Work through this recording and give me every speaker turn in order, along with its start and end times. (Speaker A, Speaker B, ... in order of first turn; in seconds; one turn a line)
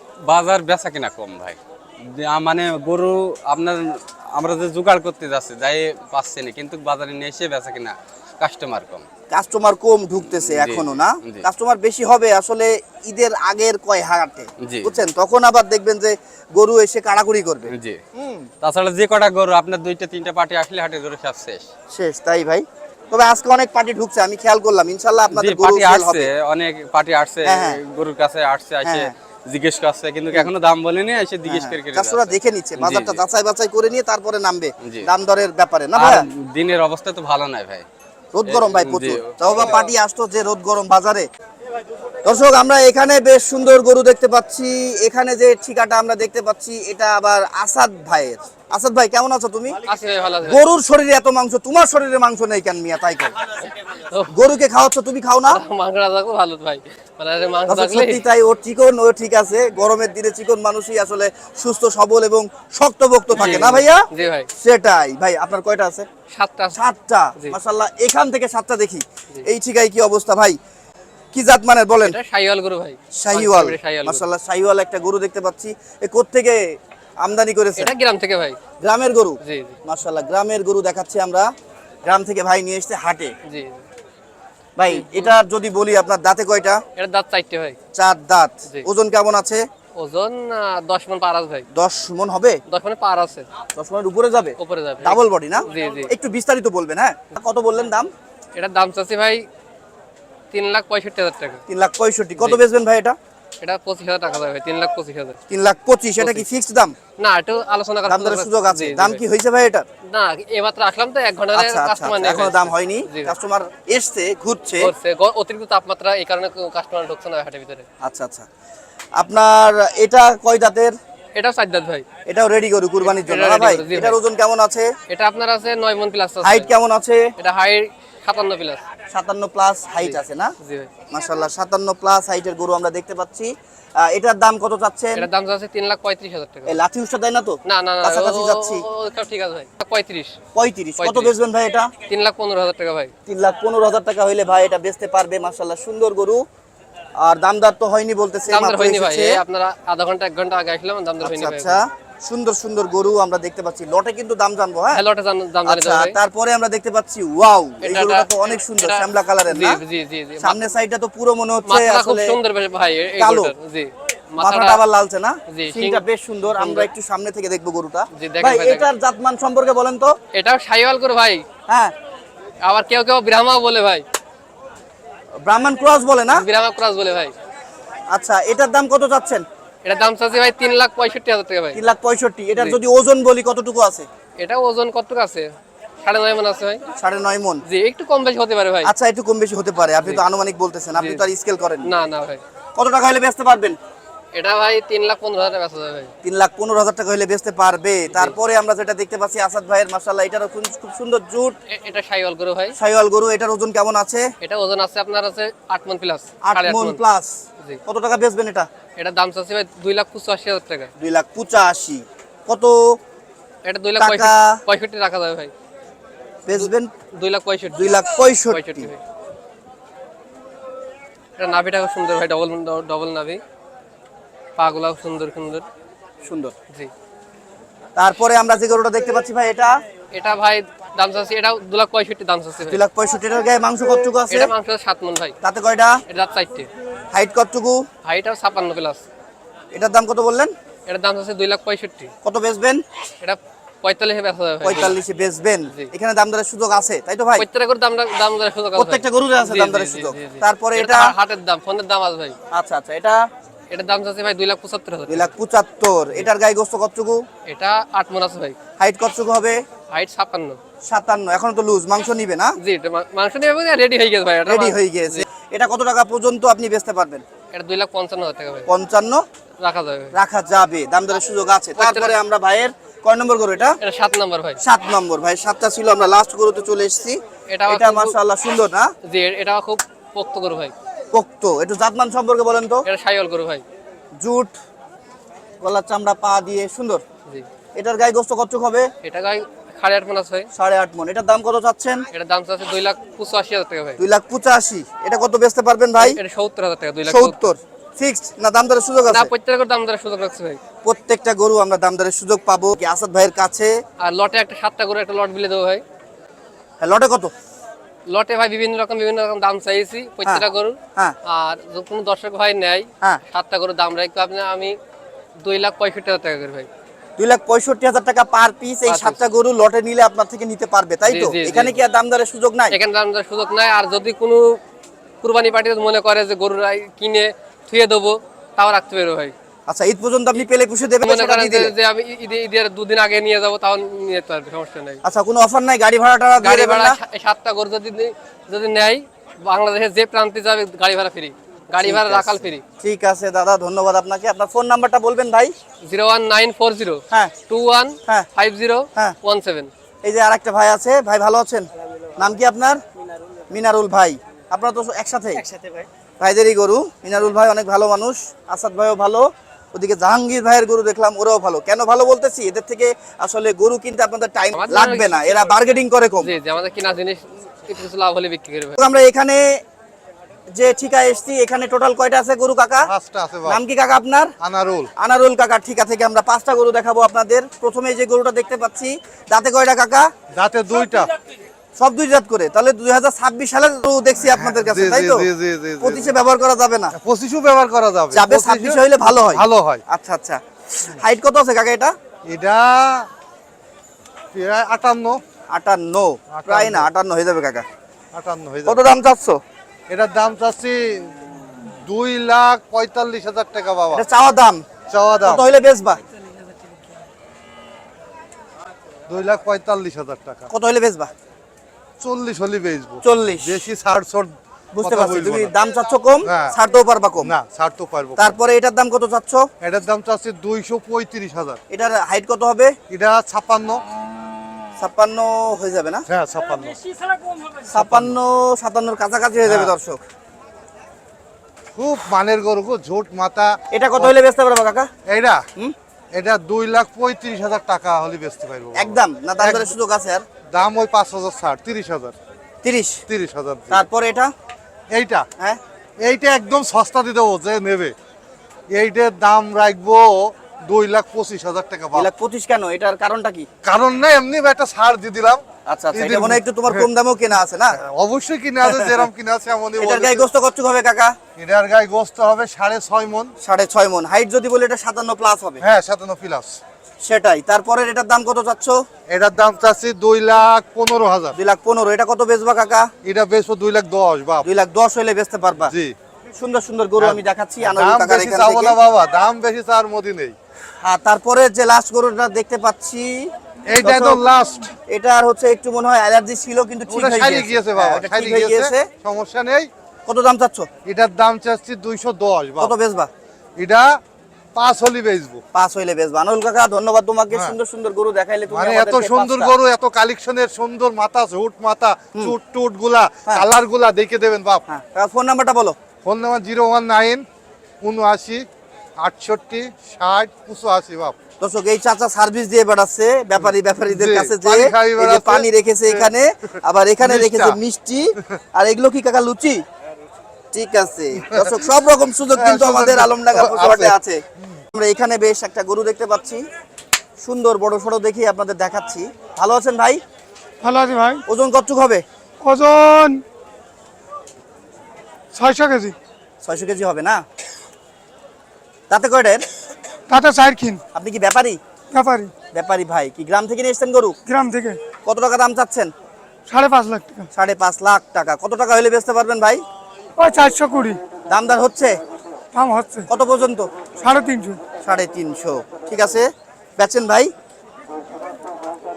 Speaker A: 0.3-9.1
Speaker B: 9.3-18.5
Speaker A: 10.3-11.5
Speaker A: 14.6-14.9
Speaker A: 17.7-18.0
Speaker A: 18.6-21.7
Speaker B: 21.9-26.3
Speaker A: 25.3-33.2
Speaker B: 27.4-27.8
Speaker B: 28.8-29.1
Speaker B: 31.5-36.2
Speaker A: 34.8-35.1
Speaker A: 35.9-37.9
Speaker B: 38.3-41.3
Speaker A: 38.5-39.8
Speaker B: 42.2-49.8
Speaker C: 49.9-50.6
Speaker B: 50.4-53.5
Speaker C: 53.9-54.3
Speaker B: 54.3-55.6
Speaker C: 55.5-58.2
Speaker B: 57.7-66.1
Speaker C: 63.3-64.5
Speaker C: 66.3-66.8
Speaker B: 66.7-70.6
Speaker B: 71.3-72.2
Speaker C: 72.0-74.2
Speaker B: 73.2-76.6
Speaker B: 77.2-77.9
Speaker C: 77.8-78.6
Speaker B: 78.8-81.5
Speaker C: 79.4-79.8
Speaker B: 82.0-83.3
Speaker C: 83.5-83.8
Speaker B: 84.8-86.8
Speaker C: 84.9-85.3
Speaker C: 87.0-87.8
Speaker B: 88.0-89.6
Speaker C: 90.0-91.7
Speaker B: 91.7-92.6
Speaker C: 92.7-93.5
Speaker B: 93.8-98.1
Speaker C: 94.6-96.1
Speaker C: 98.5-99.5
Speaker C: 100.5-101.6
Speaker B: 101.7-103.2
Speaker C: 103.6-105.4
Speaker B: 105.5-107.0
Speaker C: 106.2-106.5
Speaker C: 107.2-109.2
Speaker B: 108.1-109.9
Speaker C: 110.1-113.3
Speaker B: 111.5-114.9
Speaker C: 114.8-117.9
Speaker B: 118.0-118.5
Speaker B: 119.2-121.0
Speaker C: 121.3-122.0
Speaker B: 122.3-124.9
Speaker C: 123.0-124.2
Speaker C: 125.1-126.7
Speaker B: 126.4-127.3
Speaker C: 127.4-128.8
Speaker B: 129.1-130.5
Speaker C: 130.0-130.9
Speaker B: 131.1-135.3
Speaker C: 135.2-136.8
Speaker B: 136.7-138.8
Speaker C: 137.7-140.3
Speaker B: 140.6-141.9
Speaker C: 141.0-141.3
Speaker C: 142.1-143.1
Speaker B: 143.3-146.4
Speaker B: 147.2-149.4
Speaker C: 148.5-151.9
Speaker B: 151.2-155.0
Speaker C: 154.9-156.2
Speaker B: 155.7-159.8
Speaker C: 157.8-160.6
Speaker B: 160.4-162.4
Speaker C: 161.7-164.8
Speaker B: 163.2-163.5
Speaker B: 164.4-170.2
Speaker C: 165.5-166.0
Speaker C: 166.5-166.9
Speaker C: 168.1-168.9
Speaker C: 170.3-171.4
Speaker B: 171.7-171.9
Speaker C: 172.6-174.0
Speaker B: 175.4-176.4
Speaker C: 176.3-177.3
Speaker B: 178.1-179.4
Speaker C: 179.8-181.8
Speaker B: 181.7-184.1
Speaker C: 184.4-185.5
Speaker C: 186.0-186.8
Speaker B: 187.0-187.6
Speaker C: 187.7-188.9
Speaker B: 188.8-191.9
Speaker C: 191.0-191.3
Speaker C: 191.8-192.4
Speaker B: 192.8-193.8
Speaker C: 194.3-196.1
Speaker B: 196.2-201.6
Speaker C: 201.7-202.8
Speaker B: 202.8-204.3
Speaker C: 204.4-207.0
Speaker B: 206.4-207.3
Speaker B: 207.9-208.7
Speaker C: 209.0-210.9
Speaker B: 211.0-213.0
Speaker C: 213.7-215.5
Speaker B: 214.0-214.6
Speaker B: 216.5-216.9
Speaker C: 216.5-219.0
Speaker B: 217.7-218.9
Speaker C: 221.4-223.4
Speaker C: 224.6-225.7
Speaker B: 226.2-226.6
Speaker B: 228.0-229.8
Speaker C: 230.1-232.8
Speaker B: 232.7-234.5
Speaker C: 234.3-235.3
Speaker B: 235.4-236.0
Speaker C: 236.1-236.7
Speaker B: 237.1-237.8
Speaker C: 238.1-239.0
Speaker B: 239.7-240.5
Speaker C: 240.9-242.1
Speaker B: 242.2-242.8
Speaker C: 243.2-245.0
Speaker B: 244.6-247.5
Speaker C: 247.4-252.4
Speaker B: 248.8-251.1
Speaker B: 252.5-253.2
Speaker C: 253.7-255.3
Speaker B: 255.1-257.2
Speaker C: 257.5-258.6
Speaker B: 258.8-259.6
Speaker C: 259.9-260.6
Speaker B: 260.9-262.6
Speaker C: 262.6-265.2
Speaker B: 264.5-267.2
Speaker C: 267.5-268.7
Speaker B: 268.7-269.2
Speaker C: 269.6-270.1
Speaker B: 270.1-273.8
Speaker C: 271.8-272.1
Speaker C: 273.8-274.6
Speaker B: 274.6-278.9
Speaker C: 277.5-278.1
Speaker C: 279.1-280.7
Speaker B: 281.1-282.8
Speaker C: 282.9-283.6
Speaker B: 284.2-284.5
Speaker B: 285.6-287.0
Speaker B: 287.8-288.9
Speaker C: 289.0-290.5
Speaker B: 290.5-292.0
Speaker C: 292.1-294.0
Speaker B: 294.0-296.2
Speaker C: 296.0-297.4
Speaker B: 297.1-299.3
Speaker C: 299.1-300.6
Speaker B: 300.9-303.8
Speaker C: 304.0-305.8
Speaker B: 306.8-307.3
Speaker C: 308.1-314.8
Speaker C: 315.4-316.7
Speaker B: 317.2-322.8
Speaker C: 318.9-319.2
Speaker C: 321.1-321.8
Speaker C: 322.7-324.6
Speaker C: 325.2-329.3
Speaker B: 329.7-331.7
Speaker C: 331.0-335.0
Speaker B: 335.0-337.0
Speaker C: 336.4-342.6
Speaker B: 341.8-345.5
Speaker C: 345.9-349.7
Speaker B: 350.1-351.7
Speaker B: 352.2-352.8
Speaker B: 353.5-355.5
Speaker B: 356.2-366.3
Speaker C: 364.5-365.5
Speaker C: 366.2-368.8
Speaker B: 368.8-369.6
Speaker B: 370.5-372.9
Speaker D: 372.9-373.6
Speaker B: 373.5-374.3
Speaker D: 374.4-374.9
Speaker B: 375.0-380.1
Speaker D: 380.3-381.1
Speaker B: 381.8-385.3
Speaker D: 384.3-386.1
Speaker B: 385.8-386.9
Speaker D: 386.9-389.8
Speaker B: 388.1-391.9
Speaker D: 392.3-393.1
Speaker D: 394.3-395.2
Speaker B: 395.5-397.6
Speaker D: 396.3-396.9
Speaker D: 398.1-398.8
Speaker B: 398.7-399.4
Speaker D: 399.9-401.1
Speaker D: 401.8-404.1
Speaker B: 403.9-404.6
Speaker D: 404.9-405.5
Speaker B: 405.2-406.0
Speaker D: 409.1-410.5
Speaker B: 410.5-411.1
Speaker D: 412.0-415.5
Speaker B: 413.0-413.6
Speaker B: 414.7-417.3
Speaker D: 416.3-416.5
Speaker D: 417.2-418.4
Speaker B: 418.2-419.5
Speaker D: 419.6-421.6
Speaker B: 421.7-422.8
Speaker D: 422.9-423.8
Speaker B: 424.8-426.1
Speaker D: 426.1-426.8
Speaker B: 427.7-430.0
Speaker D: 427.8-428.1
Speaker D: 429.4-429.7
Speaker D: 431.8-434.1
Speaker B: 433.7-434.9
Speaker D: 435.1-435.4
Speaker D: 436.1-439.7
Speaker B: 438.8-440.2
Speaker D: 440.5-442.1
Speaker B: 442.6-443.0
Speaker D: 443.1-443.8
Speaker B: 443.7-444.3
Speaker D: 444.9-445.3
Speaker D: 446.0-447.9
Speaker D: 448.7-452.1
Speaker B: 451.9-453.5
Speaker D: 453.6-455.4
Speaker B: 455.7-457.8
Speaker D: 455.9-456.9
Speaker D: 457.8-460.2
Speaker B: 458.6-459.0
Speaker B: 459.8-461.2
Speaker D: 461.4-463.3
Speaker B: 463.4-465.6
Speaker D: 465.6-466.6
Speaker B: 467.0-468.8
Speaker D: 469.1-471.3
Speaker B: 471.4-472.9
Speaker D: 473.0-474.5
Speaker B: 474.4-475.7
Speaker D: 475.7-475.9
Speaker B: 476.4-478.8
Speaker D: 477.0-480.3
Speaker B: 480.8-484.2
Speaker D: 483.7-484.7
Speaker B: 484.9-488.9
Speaker D: 486.9-489.7
Speaker B: 490.1-490.7
Speaker D: 490.9-492.7
Speaker B: 492.6-493.1
Speaker D: 493.6-494.0
Speaker D: 494.6-495.4
Speaker B: 495.6-499.5
Speaker D: 498.5-504.6
Speaker B: 504.7-505.8
Speaker D: 506.1-507.2
Speaker D: 507.8-508.5
Speaker D: 509.0-511.2
Speaker B: 511.4-519.6
Speaker D: 513.4-516.1
Speaker D: 517.0-517.6
Speaker B: 520.5-524.2
Speaker D: 521.3-521.5
Speaker D: 522.4-524.0
Speaker B: 524.7-526.4
Speaker B: 527.2-530.0
Speaker E: 530.6-531.2
Speaker B: 531.3-532.0
Speaker E: 532.4-533.2
Speaker E: 535.3-536.0
Speaker B: 536.4-537.2
Speaker B: 538.9-539.4
Speaker E: 540.1-540.8
Speaker B: 541.0-541.6
Speaker E: 541.9-542.3
Speaker B: 542.5-544.2
Speaker E: 544.3-544.8
Speaker B: 545.1-545.9
Speaker E: 546.5-547.3
Speaker B: 547.3-549.6
Speaker E: 550.2-551.0
Speaker B: 551.3-552.0
Speaker E: 552.5-553.1
Speaker B: 553.1-553.7
Speaker E: 554.0-554.6
Speaker B: 554.8-557.3